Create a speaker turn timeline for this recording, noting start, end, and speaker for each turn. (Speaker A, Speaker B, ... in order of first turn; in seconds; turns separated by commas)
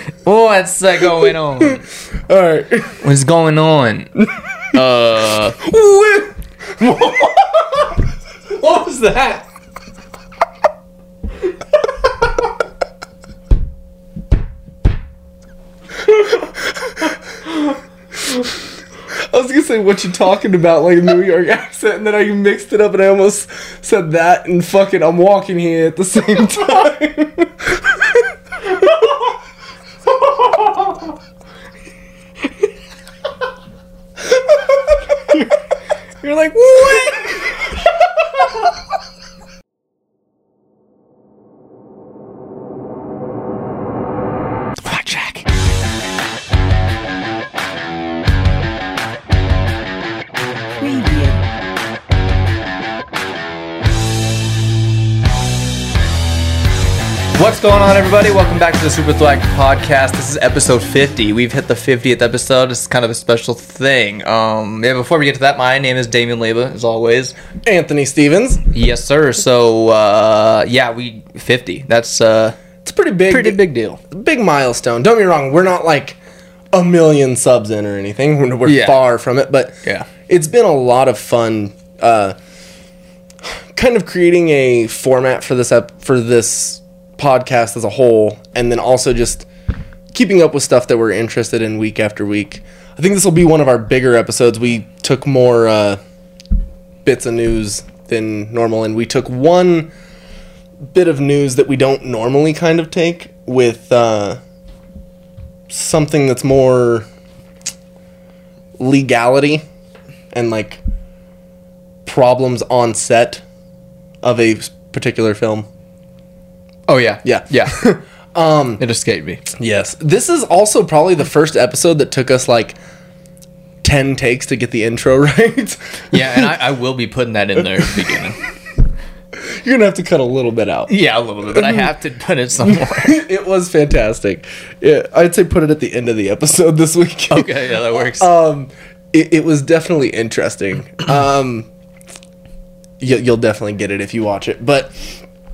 Speaker A: 0.2-1.8, Speaker B: 1.3-3.0, Speaker A: 3.0-4.1, Speaker B: 4.2-4.5, Speaker A: 4.7-5.6, Speaker B: 5.6-7.9, Speaker A: 8.6-9.4, Speaker B: 16.1-18.6, Speaker B: 19.1-29.4, Speaker B: 30.4-31.0, Speaker B: 34.3-34.8, Speaker A: 36.2-37.3, Speaker B: 36.7-37.5, Speaker A: 44.9-45.4, Speaker B: 50.8-51.3, Speaker A: 57.3-67.4, Speaker B: 67.6-68.6, Speaker A: 68.7-72.6, Speaker B: 72.8-76.2, Speaker A: 73.3-74.0, Speaker B: 76.7-82.4, Speaker A: 78.7-79.0, Speaker B: 83.4-89.5, Speaker B: 90.1-96.0, Speaker B: 97.0-99.9, Speaker B: 100.9-104.4, Speaker B: 105.7-107.1, Speaker B: 108.8-109.6, Speaker B: 110.3-110.8, Speaker B: 112.1-113.4, Speaker B: 114.2-115.7, Speaker A: 116.9-117.8, Speaker B: 117.2-118.8, Speaker A: 118.8-119.4, Speaker B: 119.5-122.8, Speaker B: 123.8-126.5, Speaker A: 126.1-128.4, Speaker B: 127.8-128.2, Speaker B: 129.4-130.9, Speaker A: 130.9-133.2, Speaker B: 131.5-131.9, Speaker B: 132.6-141.7, Speaker A: 137.3-138.3, Speaker B: 143.0-145.2